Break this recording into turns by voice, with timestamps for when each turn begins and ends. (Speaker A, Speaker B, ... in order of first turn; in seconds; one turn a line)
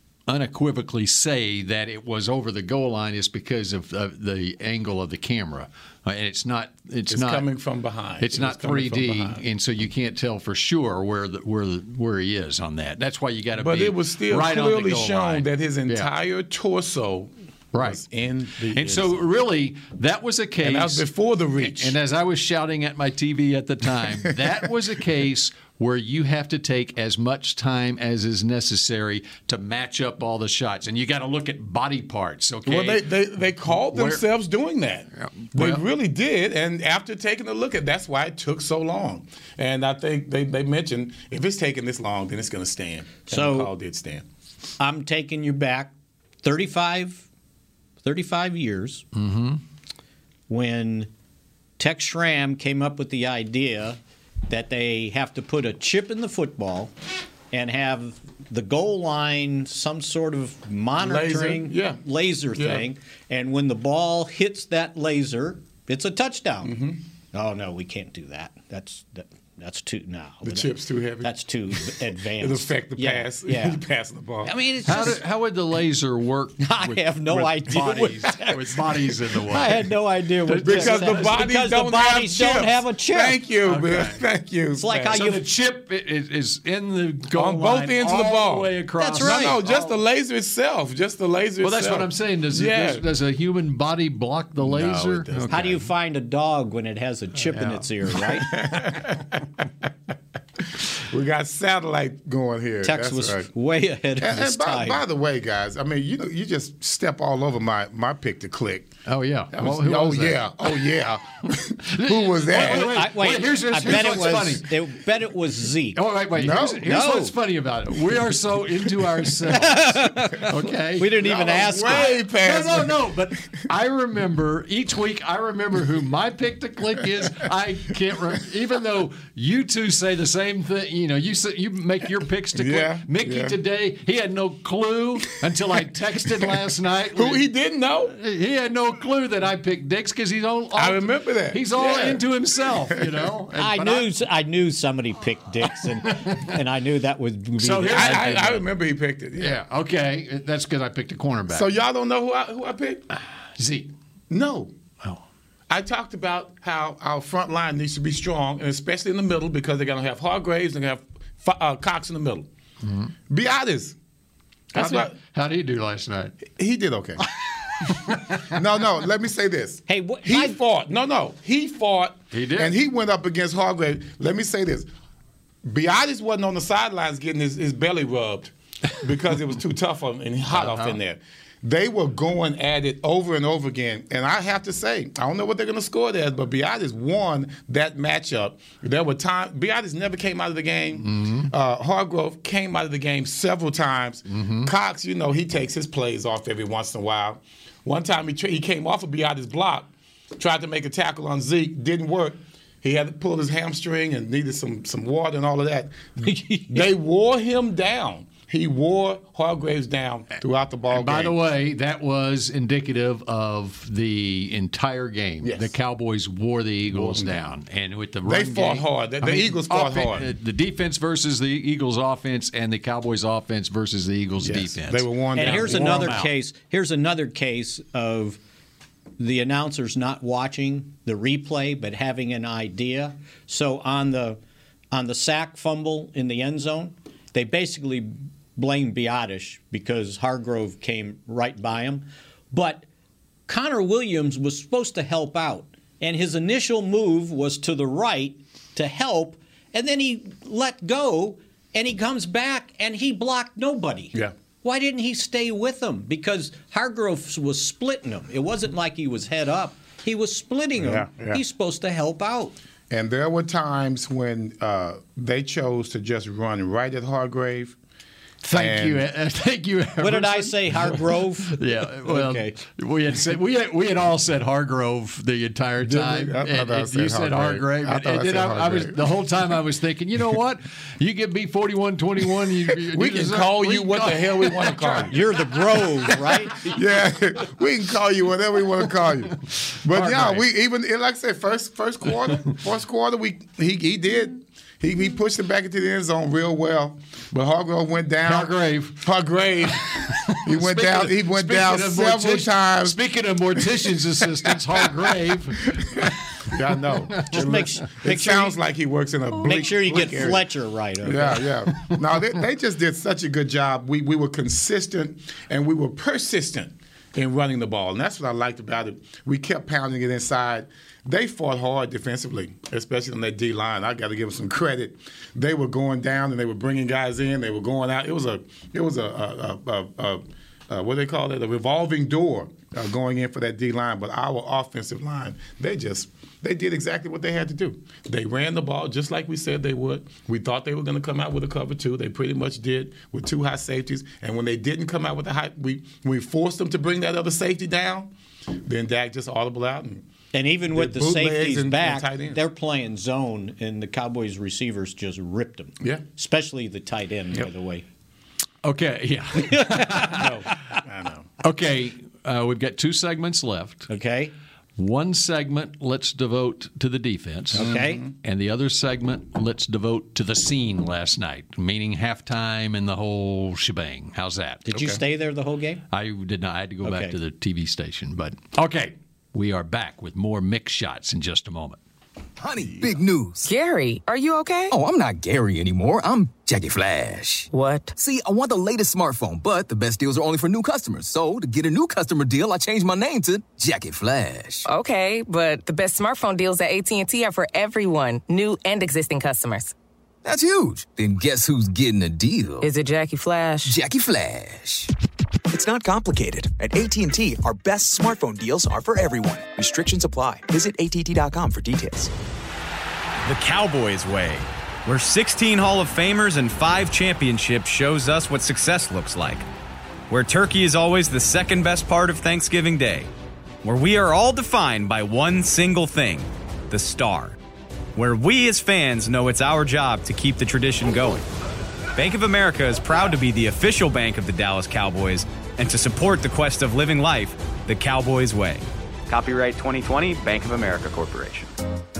Speaker A: 0.3-7.5
Speaker B: 7.1-9.4
Speaker A: 8.2-16.1
Speaker B: 13.5-19.2
Speaker A: 17.7-18.0
Speaker A: 18.7-21.1
Speaker B: 20.6-21.9
Speaker A: 21.6-33.1
Speaker B: 32.6-44.2
Speaker A: 33.7-34.2
Speaker A: 35.2-35.8
Speaker C: 43.3-43.7
Speaker C: 44.8-45.9
Speaker C: 46.4-47.2
Speaker C: 48.0-49.0
Speaker A: 49.1-49.6
Speaker C: 50.5-51.1
Speaker C: 51.8-56.9
Speaker C: 57.5-66.8
Speaker B: 61.0-62.0
Speaker B: 62.5-62.8
Speaker B: 66.6-67.0
Speaker C: 67.3-73.8
Speaker B: 70.4-74.5
Speaker C: 74.4-75.2
Speaker A: 74.8-79.9
Speaker C: 76.6-78.8
Speaker C: 79.5-83.4
Speaker A: 80.5-81.3
Speaker B: 80.6-85.2
Speaker A: 83.6-84.2
Speaker C: 84.8-85.4
Speaker A: 85.1-89.9
Speaker B: 87.3-93.0
Speaker C: 89.0-89.6
Speaker A: 91.6-95.6
Speaker B: 94.6-95.8
Speaker C: 95.5-98.5
Speaker A: 97.4-97.8
Speaker B: 98.4-99.8
Speaker B: 100.8-103.5
Speaker C: 102.8-105.0
Speaker B: 104.2-108.9
Speaker A: 109.0-110.5
Speaker B: 109.5-113.1
Speaker A: 111.9-114.8
Speaker C: 112.5-116.0
Speaker A: 115.9-121.3
Speaker B: 116.3-116.9
Speaker C: 116.8-117.3
Speaker C: 119.5-122.2
Speaker B: 121.1-123.1
Speaker A: 121.8-137.4
Speaker B: 132.5-133.6
Speaker B: 137.1-138.1
Speaker A: 138.1-144.1
Speaker B: 140.7-142.2
Speaker B: 142.9-143.2
Speaker C: 143.6-148.6
Speaker A: 146.1-146.4
Speaker A: 147.6-148.6
Speaker B: 147.9-149.6
Speaker A: 149.4-151.7
Speaker B: 151.5-153.1
Speaker A: 153.6-153.9
Speaker B: 154.3-154.7
Speaker B: 155.7-162.5
Speaker A: 162.8-163.1
Speaker B: 163.3-164.0
Speaker B: 164.7-165.2
Speaker A: 164.7-166.4
Speaker B: 166.5-167.2
Speaker A: 168.1-168.3
Speaker B: 168.1-174.9
Speaker C: 169.9-170.6
Speaker A: 172.3-172.7
Speaker B: 175.6-211.3
Speaker A: 180.5-181.0
Speaker A: 191.0-191.5
Speaker A: 194.3-194.7
Speaker C: 206.2-206.9
Speaker A: 210.9-226.3
Speaker B: 215.4-215.7
Speaker B: 216.9-217.4
Speaker B: 218.2-220.3
Speaker B: 224.4-226.3
Speaker C: 225.3-228.4
Speaker C: 229.2-234.4
Speaker C: 234.9-242.8
Speaker C: 243.5-262.6
Speaker B: 260.8-261.4
Speaker B: 262.9-267.8
Speaker A: 268.4-285.2
Speaker B: 268.5-269.1
Speaker C: 270.0-272.6
Speaker B: 275.8-279.1
Speaker B: 282.8-285.3
Speaker C: 285.1-286.7
Speaker B: 286.6-303.0
Speaker A: 289.9-290.4
Speaker A: 298.2-299.1
Speaker A: 299.7-306.5
Speaker B: 303.6-305.1
Speaker B: 305.7-310.5
Speaker C: 307.3-308.6
Speaker C: 309.4-311.5
Speaker B: 311.0-350.1
Speaker C: 350.3-357.8
Speaker B: 350.7-352.4
Speaker A: 358.6-360.3
Speaker C: 359.4-360.2
Speaker B: 360.0-361.3
Speaker A: 361.4-363.9
Speaker C: 363.9-364.3
Speaker A: 364.8-374.9
Speaker C: 367.5-368.0
Speaker B: 367.6-368.1
Speaker C: 374.7-375.8
Speaker A: 375.9-381.8
Speaker C: 376.8-377.1
Speaker D: 382.4-383.5
Speaker E: 383.4-384.7
Speaker D: 384.7-394.7
Speaker E: 387.5-387.9
Speaker E: 394.6-399.7
Speaker D: 400.2-402.7
Speaker E: 402.6-403.7
Speaker D: 403.6-404.9
Speaker F: 405.5-412.1
Speaker G: 413.2-419.4
Speaker G: 420.1-423.1
Speaker G: 423.6-427.4
Speaker G: 427.9-431.2
Speaker G: 431.9-441.5